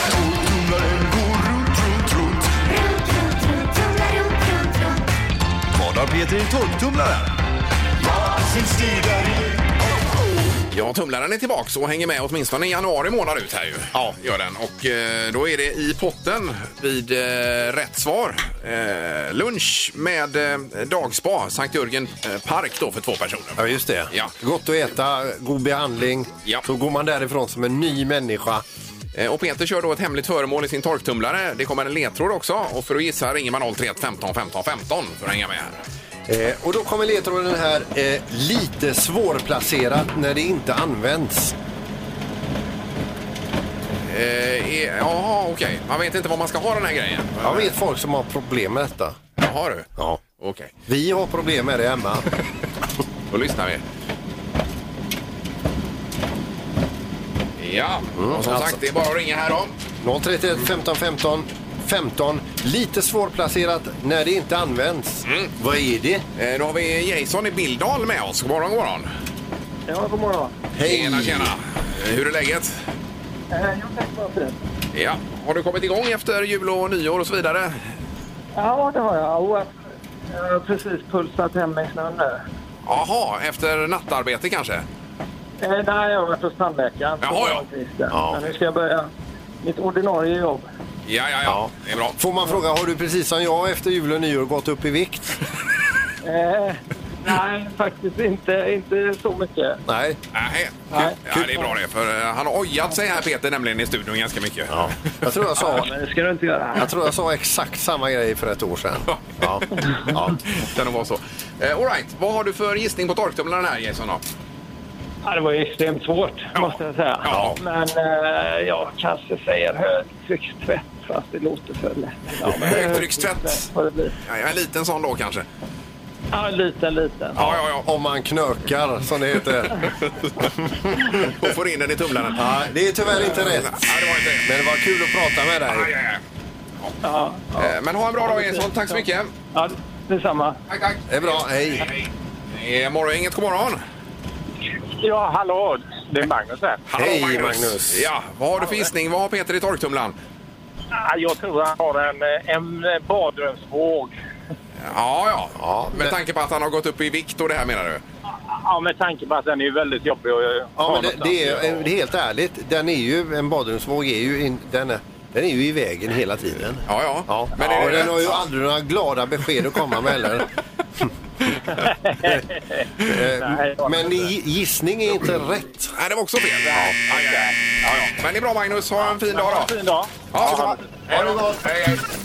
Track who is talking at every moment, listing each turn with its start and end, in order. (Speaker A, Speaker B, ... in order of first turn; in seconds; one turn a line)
Speaker A: 0.3-2.4
Speaker A: 5.7-7.4
Speaker A: 8.1-9.5
Speaker B: 10.7-24.3
Speaker C: 23.6-28.6
Speaker B: 29.1-35.8
Speaker C: 36.3-41.6
Speaker B: 44.0-47.7
Speaker C: 47.4-49.2
Speaker B: 49.4-50.7
Speaker C: 50.9-52.3
Speaker B: 53.3-53.8
Speaker B: 57.6-59.8
Speaker C: 58.2-58.8
Speaker C: 60.0-66.2
Speaker B: 65.2-65.5
Speaker B: 66.4-69.1
Speaker D: 69.9-70.5
Speaker C: 70.8-71.5
Speaker B: 70.8-72.8
Speaker D: 73.5-74.6
Speaker B: 74.9-77.9
Speaker D: 78.6-79.7
Speaker D: 80.3-82.4
Speaker B: 82.8-84.9
Speaker D: 85.6-89.1
Speaker B: 87.2-87.7
Speaker C: 88.1-88.4
Speaker D: 89.6-90.7
Speaker B: 91.0-92.2
Speaker C: 91.5-95.4
Speaker D: 96.2-99.8
Speaker C: 99.9-100.2
Speaker B: 100.3-104.8
Speaker D: 100.9-101.2
Speaker C: 101.3-101.6
Speaker C: 104.7-105.9
Speaker D: 105.6-106.9
Speaker C: 106.8-110.4
Speaker B: 110.6-114.2
Speaker D: 115.2-124.2
Speaker B: 116.5-117.6
Speaker C: 117.3-117.6
Speaker B: 122.5-123.7
Speaker B: 124.2-125.5
Speaker D: 126.3-127.6
Speaker B: 127.3-127.9
Speaker C: 127.8-129.8
Speaker B: 129.7-132.5
Speaker C: 132.3-133.8
Speaker B: 133.2-134.4
Speaker C: 134.5-135.9
Speaker B: 135.7-136.2
Speaker D: 137.0-139.0
Speaker B: 137.6-139.3
Speaker D: 139.5-140.6
Speaker B: 140.7-143.8
Speaker C: 141.1-141.9
Speaker E: 145.0-146.8
Speaker B: 146.9-150.2
Speaker C: 147.0-148.1
Speaker E: 151.0-154.2
Speaker B: 154.8-158.0
Speaker C: 155.6-156.2
Speaker E: 158.5-161.5
Speaker C: 160.8-170.5
Speaker B: 166.9-168.5
Speaker E: 172.1-172.8
Speaker C: 173.0-175.9
Speaker E: 173.4-174.3
Speaker B: 175.9-179.7
Speaker E: 176.7-177.5
Speaker E: 179.1-180.8
Speaker B: 180.3-182.0
Speaker C: 181.1-181.6